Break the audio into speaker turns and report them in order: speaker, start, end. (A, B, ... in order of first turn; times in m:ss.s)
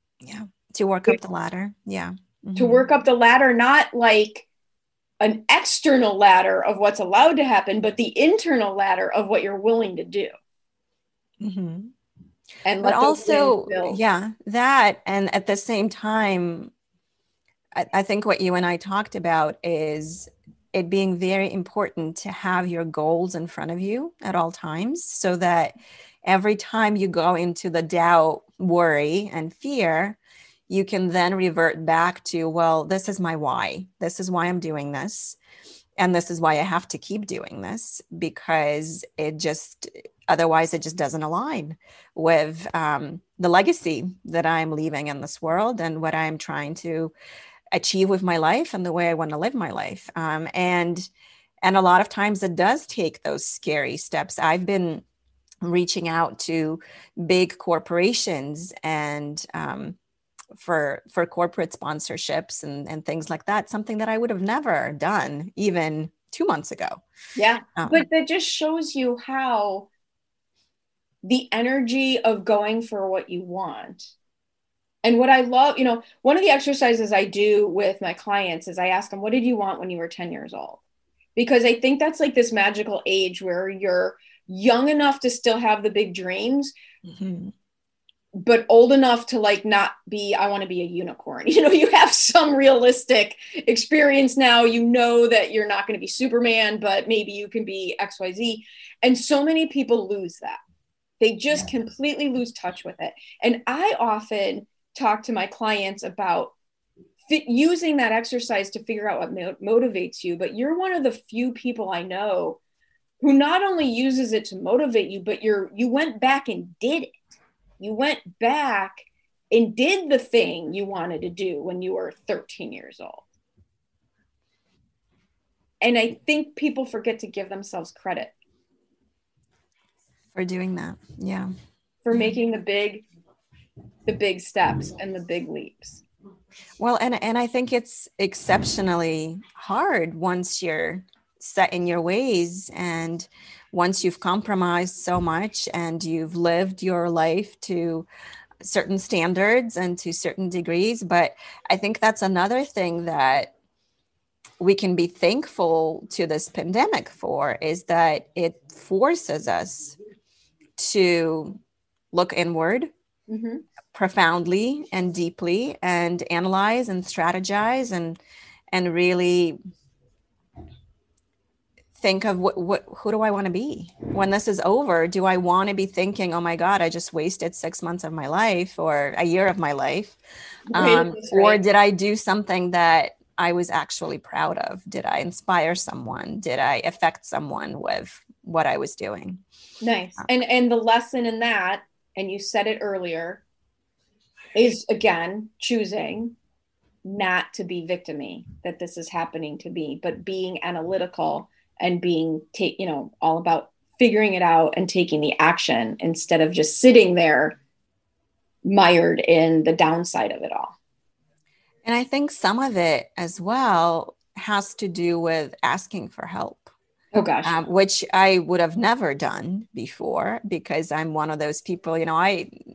0:00.2-0:02.8 A
0:02.6-0:04.4 B
0:05.2-0:10.3 B
0:11.4-0:11.9 A
0:12.6-0:14.0 B
0:12.8-0:16.7 A
0:17.7-0:30.2 A
0:30.7-0:35.4 A
0:36.0-0:47.1 A
0:47.7-0:51.1 A
0:51.6-0:55.0 A
0:55.6-1:00.0 A
1:00.5-1:07.0 A
1:07.4-1:09.9 B
1:07.8-1:08.0 A
1:11.2-1:14.1 B
1:15.0-1:20.8 B
1:21.4-1:26.7 B
1:27.0-1:27.5 A
1:28.3-1:40.6 B
1:41.2-1:46.5 B
1:47.3-1:52.6 B
1:53.2-1:57.2 B
1:57.8-2:03.3 B
2:05.8-2:08.3 B
2:10.3-2:11.5 A
2:12.0-2:13.0 B
2:14.0-2:16.0 B
2:16.8-2:28.1 A
2:28.6-2:33.5 A
2:34.6-2:40.0 A
2:40.8-2:41.6 A
2:42.1-2:42.9 A
2:43.3-2:43.6 B
2:43.9-2:48.2 A
2:48.7-2:49.6 A
2:52.0-3:00.2 A
3:00.7-3:01.6 B
3:00.7-3:09.4 A
3:09.8-3:13.4 B
3:14.5-3:16.4 B
3:17.0-3:27.6 B
3:28.6-3:30.7 B
3:31.8-3:36.7 A
3:37.1-3:37.5 B
3:37.4-3:42.5 A